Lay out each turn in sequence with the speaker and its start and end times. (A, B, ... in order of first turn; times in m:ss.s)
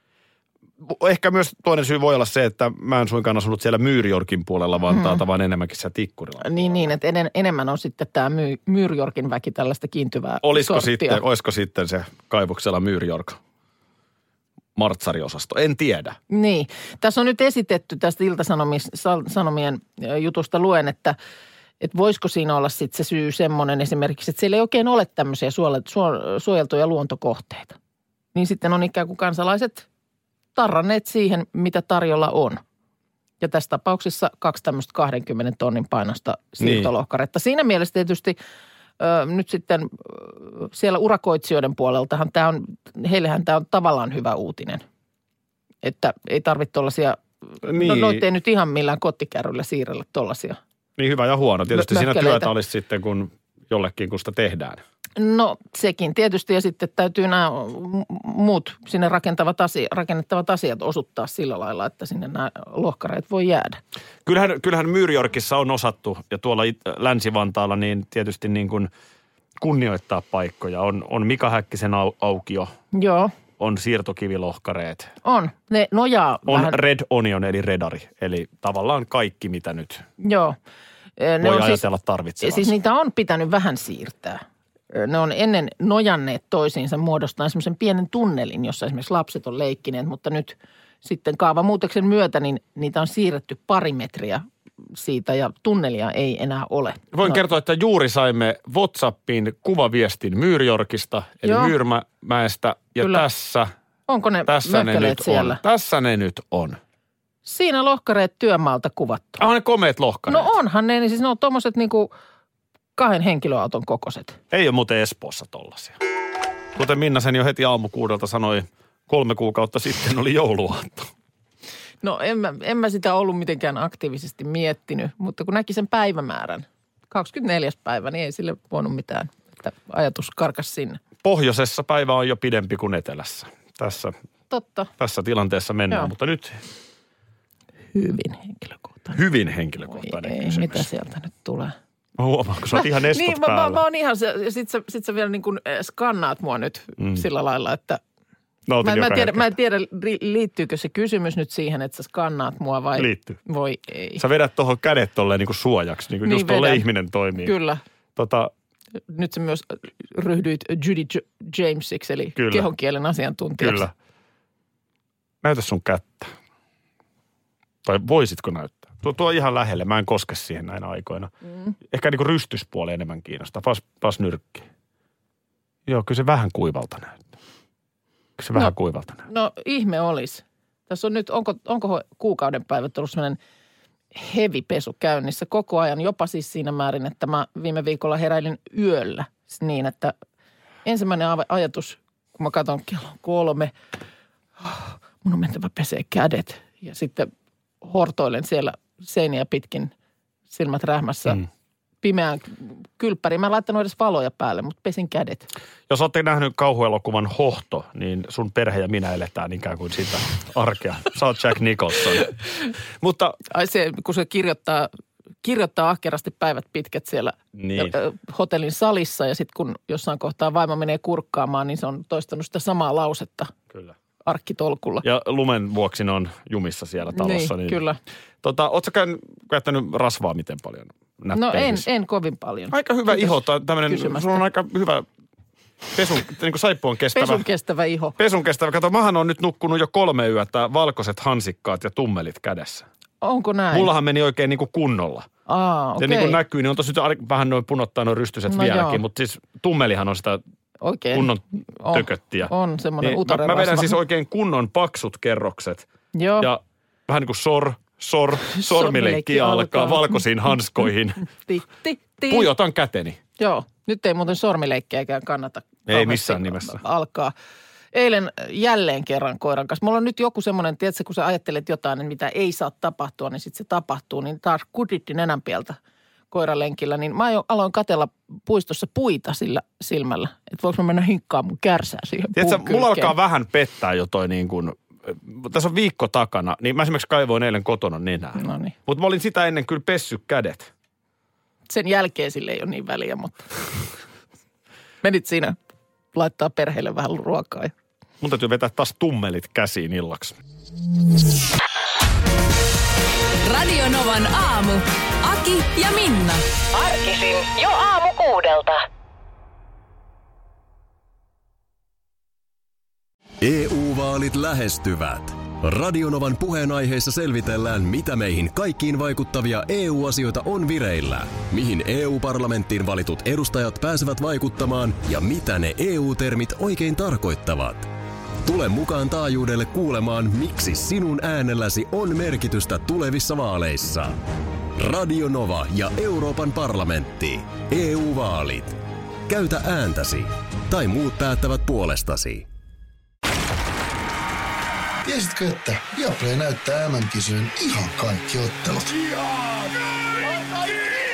0:00.8-0:06.9 A
0:04.9-0:05.2 B
0:06.4-0:11.2 B
0:10.4-0:13.4 A
0:14.8-0:16.2 A
0:16.3-0:21.2 B
0:21.8-0:27.8 B
0:28.4-0:29.9 B
0:30.6-0:32.6 B
0:33.4-0:38.4 B
0:36.6-0:36.9 A
0:39.0-0:44.8 B
0:45.8-0:50.6 B
0:47.6-0:48.2 A
0:51.0-0:54.8 A
0:51.7-0:52.5 B
0:55.2-1:03.8 B
1:04.2-1:08.9 A
1:09.6-1:12.7 A
1:12.9-1:13.3 B
1:13.6-1:15.1 A
1:15.2-1:16.8 B
1:16.5-1:20.0 A
1:20.2-1:20.6 B
1:21.2-1:21.8 B
1:21.4-1:22.8 A
1:22.4-1:37.4 B
1:37.1-1:43.7 A
1:41.4-1:41.8 B
1:43.0-1:43.2 B
1:44.1-1:45.6 B
1:44.5-1:46.8 A
1:47.4-1:49.4 B
1:49.4-1:50.5 A
1:50.3-1:52.1 B
1:53.0-1:54.4 B
1:54.5-1:56.0 A
1:56.8-2:01.1 A
2:02.0-2:11.0 B
2:11.2-2:14.2 A
2:14.5-2:14.9 B
2:15.0-2:16.6 A
2:17.9-2:19.2 B
2:19.1-2:20.9 A
2:19.9-2:21.8 B
2:22.2-2:23.8 A
2:22.7-2:28.0 B
2:27.0-2:27.2 A
2:28.7-2:29.5 A
2:28.8-2:34.2 B
2:33.0-2:33.4 A
2:34.2-2:37.5 A
2:36.2-2:36.9 B
2:37.4-2:37.8 B
2:38.2-2:38.5 A
2:39.1-2:43.8 B
2:42.4-2:42.7 A
2:43.6-2:43.9 A
2:45.4-2:46.3 A
2:47.8-2:51.3 A
2:51.8-2:54.7 A
2:55.9-2:57.2 A
2:58.4-2:59.2 A
2:59.2-3:03.4 B
3:04.1-3:10.1 B
3:10.8-3:13.7 B
3:14.6-3:17.3 B
3:17.8-3:19.9 B
3:20.5-3:21.4 B
3:22.0-3:25.5 B
3:25.9-3:32.3 A
3:33.0-3:33.4 A
3:33.5-3:34.9 B
3:35.4-3:43.5 B
3:37.6-3:38.0 A
3:44.2-3:45.0 B
3:45.0-3:47.8 A
3:47.2-3:48.0 B
3:48.4-3:51.9 A
3:51.3-3:54.4 B
3:52.7-3:55.1 A
3:55.9-3:57.5 A
3:57.1-3:58.2 B
3:58.2-4:02.9 A
4:03.2-4:03.9 B
4:03.7-4:05.3 A
4:05.5-4:06.4 B
4:06.0-4:10.4 A
4:08.5-4:09.0 B
4:10.8-4:14.0 B
4:11.1-4:15.9 A
4:16.2-4:16.5 B
4:16.4-4:21.3 A
4:18.5-4:20.2 B
4:21.5-4:22.5 B
4:22.3-4:23.2 A
4:23.4-4:27.3 B
4:25.9-4:26.8 A
4:27.9-4:35.8 B
4:36.3-4:43.1 B
4:42.4-4:50.7 A
4:48.4-4:48.8 B
4:51.7-4:53.5 B
4:55.0-4:55.6 B
4:56.1-4:57.7 B
4:58.2-5:00.4 A
5:03.5-5:06.4 C
5:06.7-5:08.8 D
5:13.4-5:27.9 E
5:28.4-5:34.2 E
5:34.8-5:42.5 E
5:45.0-5:48.9 F